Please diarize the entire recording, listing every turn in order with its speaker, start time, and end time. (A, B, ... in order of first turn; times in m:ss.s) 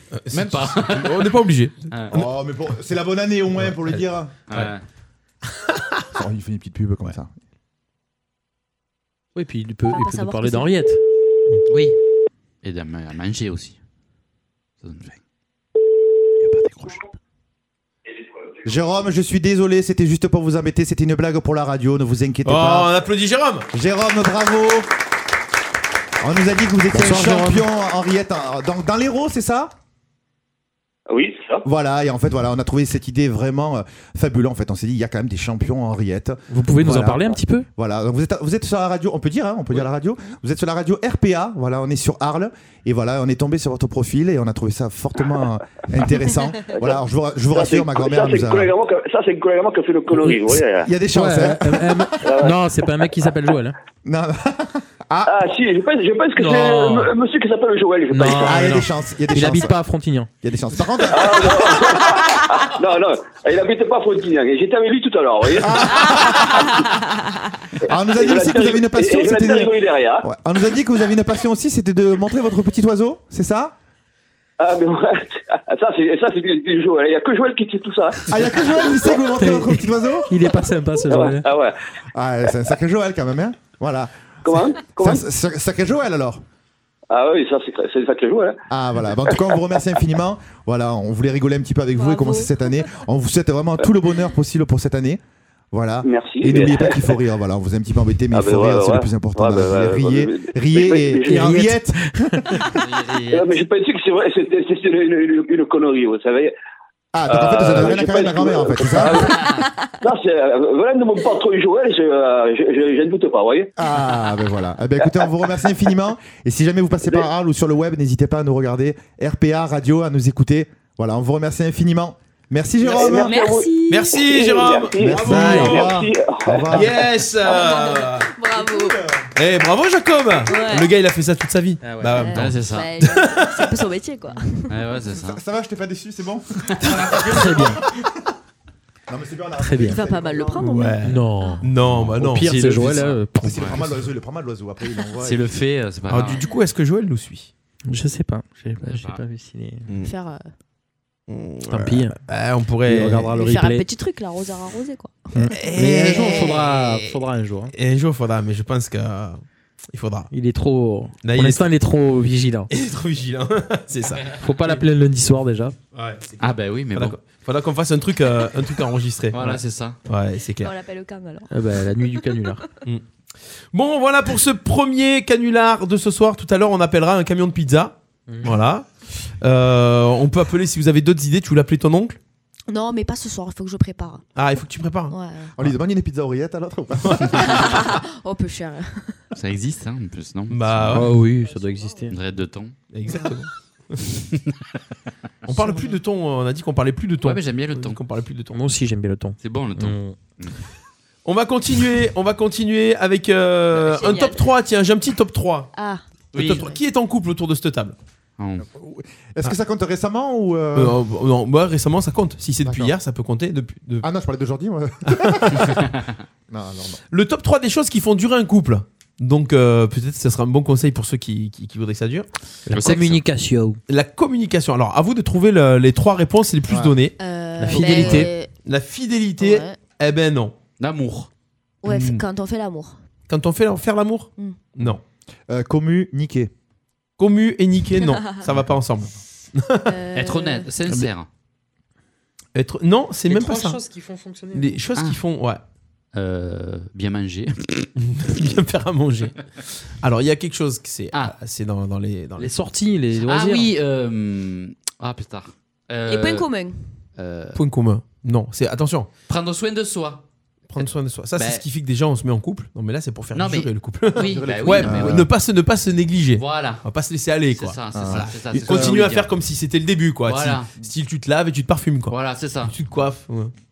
0:00.1-0:02.3 A
0:00.3-0:02.2 B
0:02.1-0:04.3 C
0:03.6-0:04.7 A
0:04.5-0:04.8 B
0:06.1-0:07.3 C
0:09.3-0:11.0 D
0:09.9-0:10.7 E
0:11.7-0:12.0 B
0:12.6-0:13.8 B
0:14.8-0:15.2 B
0:16.4-0:17.1 B
0:18.6-0:22.9 C
0:22.4-0:23.7 A
0:23.7-0:24.9 C
0:26.2-0:29.7 C
0:26.9-0:27.7 D
0:31.1-0:31.6 F
0:31.6-0:48.7 C
0:36.5-0:37.7 D
0:46.7-0:47.0 F
0:47.5-0:50.9 F
0:50.8-0:52.1 C
0:51.1-0:53.7 D
0:52.2-0:52.6 F
0:54.0-0:55.4 C
0:55.3-0:58.6 F
0:56.4-0:57.1 D
0:58.1-1:00.3 D
0:58.3-0:59.7 C
1:00.4-1:02.1 C
1:01.1-1:06.0 F
1:05.6-1:06.7 C
1:07.9-1:13.7 C
1:08.1-1:10.2 F
1:14.6-1:18.3 F
1:18.3-1:20.3 C
1:19.3-1:19.7 D
1:20.3-1:21.5 D
1:21.0-1:21.8 F
1:22.1-1:26.4 C
1:24.4-1:25.2 F
1:27.1-1:28.6 F
1:28.7-1:35.2 C
1:32.0-1:32.5 E
1:35.7-1:42.6 C
1:36.0-1:37.2 F
1:38.3-1:41.5 F
1:41.3-1:42.4 D
1:42.7-1:43.6 B
1:43.3-1:46.5 F
1:47.1-1:49.6 C
1:47.3-1:49.4 F
1:50.0-1:53.7 F
1:53.8-2:03.4 C
2:02.8-2:06.9 F
2:03.1-2:04.2 E
2:03.9-2:06.0 A
2:05.0-2:07.1 C
2:06.7-2:08.3 A
2:07.4-2:09.0 E
2:08.5-2:09.3 C
2:09.4-2:13.7 A
2:10.4-2:10.9 E
2:11.8-2:12.3 D
2:12.1-2:14.7 E
2:12.3-2:12.9 B
2:14.7-2:15.4 B
2:15.1-2:18.0 C
2:16.8-2:17.8 D
2:19.1-2:20.7 C
2:19.6-2:20.0 D
2:19.8-2:21.6 E
2:20.6-2:23.1 A
2:21.0-2:23.9 D
2:23.4-2:25.6 C
2:25.2-2:26.5 B
2:26.1-2:27.5 A
2:27.9-2:29.9 D
2:28.8-2:29.2 B
2:30.0-2:30.5 E
2:31.3-2:33.4 A
2:31.7-2:32.2 D
2:32.8-2:33.8 D
2:33.3-2:35.5 E
2:35.3-2:37.7 D
2:35.5-2:37.1 A
2:36.2-2:36.5 E
2:37.7-2:40.3 A
2:40.3-2:42.7 D
2:41.2-2:41.7 A
2:42.7-2:44.8 A
2:44.3-2:45.7 D
2:45.9-2:49.5 A
2:46.4-2:47.2 B
2:49.3-2:50.0 B
2:50.0-2:50.7 A
2:50.6-2:52.5 E
2:51.5-2:52.8 D
2:53.7-2:58.9 A
2:58.3-2:58.6 D
2:59.4-3:02.2 A
3:02.7-3:04.2 E
3:04.3-3:05.1 A
3:05.1-3:05.5 E
3:05.6-3:07.7 C
3:07.3-3:09.2 E
3:09.3-3:11.1 B
3:10.5-3:11.2 A
3:10.9-3:12.2 D
3:12.1-3:12.7 B
3:12.9-3:14.1 A
3:15.4-3:18.6 A
3:17.2-3:18.0 B
3:18.5-3:20.2 D
3:19.4-3:20.6 B
3:21.2-3:25.7 A
3:23.7-3:24.4 E
3:25.7-3:26.7 E
3:26.3-3:26.7 B
3:26.3-3:28.0 A
3:28.4-3:28.7 B
3:28.6-3:31.0 C
3:30.7-3:34.1 A
3:32.6-3:33.0 C
3:34.0-3:35.9 C
3:35.1-3:35.4 A
3:36.5-3:37.0 C
3:37.1-3:42.3 A
3:42.7-3:43.8 D
3:42.7-3:43.2 B
3:43.9-3:47.1 A
3:46.7-3:47.0 C
3:47.2-3:48.5 E
3:47.6-3:48.3 D
3:47.7-3:50.6 A
3:49.4-3:49.8 E
3:50.8-3:51.3 B
3:51.8-3:53.0 E
3:51.8-3:52.2 A
3:53.3-3:55.0 A
3:55.5-3:56.5 C
3:57.2-3:59.9 A
3:58.4-3:58.7 C
3:59.9-4:00.7 E
4:00.1-4:01.3 B
4:02.6-4:03.8 A
4:03.3-4:04.8 D
4:04.5-4:05.6 A
4:06.1-4:07.9 B
4:08.0-4:09.4 A
4:10.0-4:12.6 A
4:12.4-4:13.7 D
4:13.2-4:16.5 B
4:16.0-4:16.8 E
4:17.2-4:17.6 B
4:17.6-4:19.1 A
4:19.3-4:20.2 B
4:20.7-4:33.5 A
4:20.8-4:21.6 B
4:23.3-4:25.3 B
4:24.2-4:25.3 C
4:26.4-4:26.9 B
4:27.5-4:29.3 B
4:27.9-4:29.1 C
4:30.3-4:30.7 B
4:32.1-4:32.7 B